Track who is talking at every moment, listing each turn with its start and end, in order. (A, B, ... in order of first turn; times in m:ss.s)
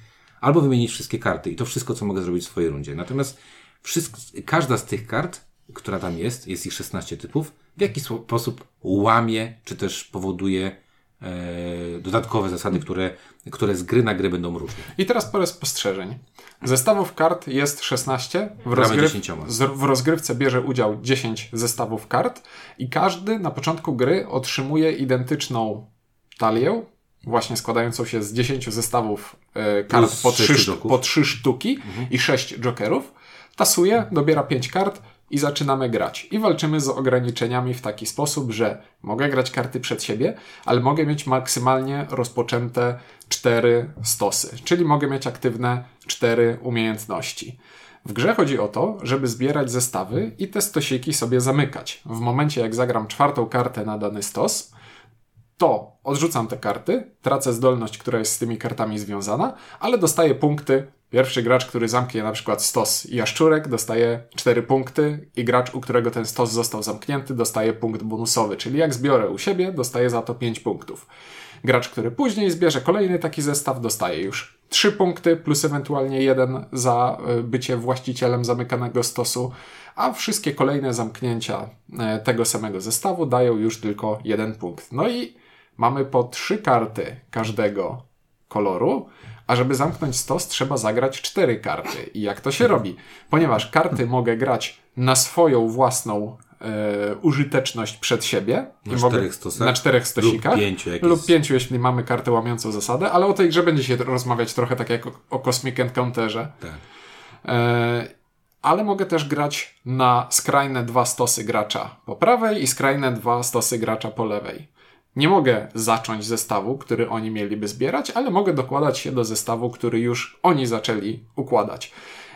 0:00.4-0:14.9 A
0:15.0-0:54.7 B
0:18.7-0:19.5 A
0:29.9-0:31.0 A
0:55.6-1:11.1 B
1:11.6-1:46.6 B
1:38.9-1:41.3 A
1:47.4-1:48.1 B
1:48.6-2:01.9 B